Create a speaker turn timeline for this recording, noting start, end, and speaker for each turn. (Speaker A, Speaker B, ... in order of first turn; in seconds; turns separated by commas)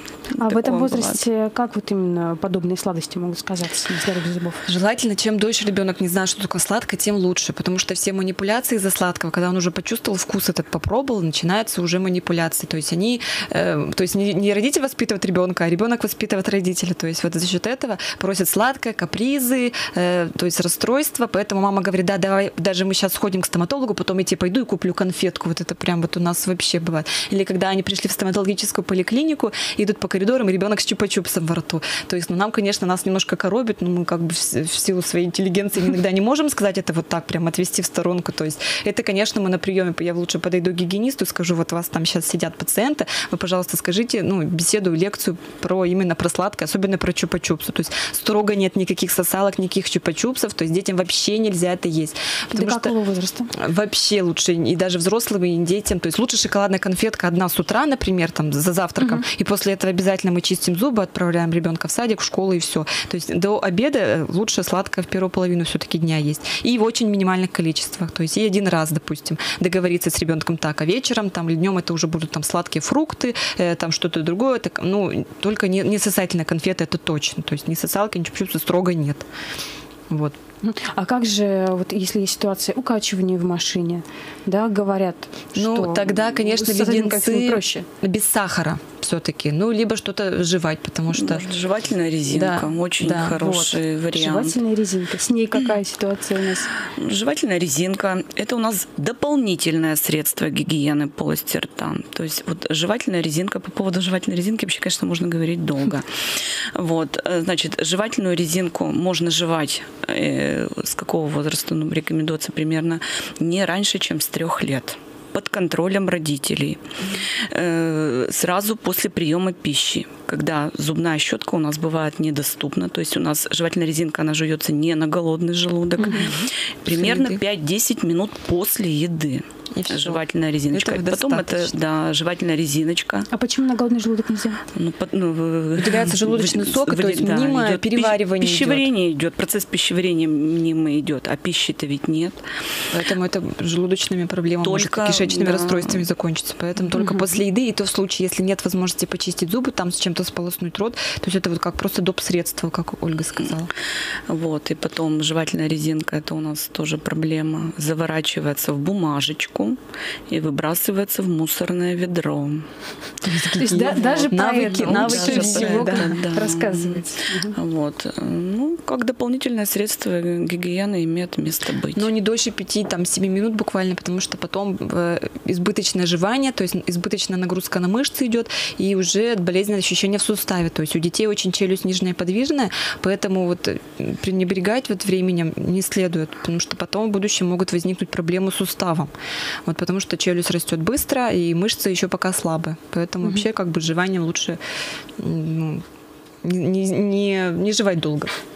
Speaker A: 0.3-4.7, Speaker B: 0.3-1.2, Speaker C: 4.7-52.9, Speaker A: 52.5-53.5, Speaker C: 53.5-79.2, Speaker A: 59.0-59.2, Speaker C: 80.1-80.4, Speaker A: 80.6-87.8, Speaker C: 85.5-91.5, Speaker B: 91.1-94.6, Speaker C: 92.3-93.6, Speaker A: 93.3-96.7, Speaker B: 96.9-106.1, Speaker B: 106.7-116.8, Speaker B: 117.3-133.3, Speaker A: 126.0-126.3, Speaker C: 126.0-126.3, Speaker C: 126.8-127.4, Speaker C: 129.7-131.7, Speaker A: 133.3-134.6, Speaker B: 134.7-142.4, Speaker C: 135.8-138.9, Speaker C: 142.9-153.7, Speaker B: 144.6-146.0, Speaker B: 154.3-159.8, Speaker B: 160.3-162.7, Speaker C: 163.2-166.1, Speaker A: 163.6-167.6, Speaker B: 163.9-172.1, Speaker C: 171.9-189.1, Speaker C: 189.7-194.6, Speaker C: 195.2-195.8, Speaker C: 196.4-198.3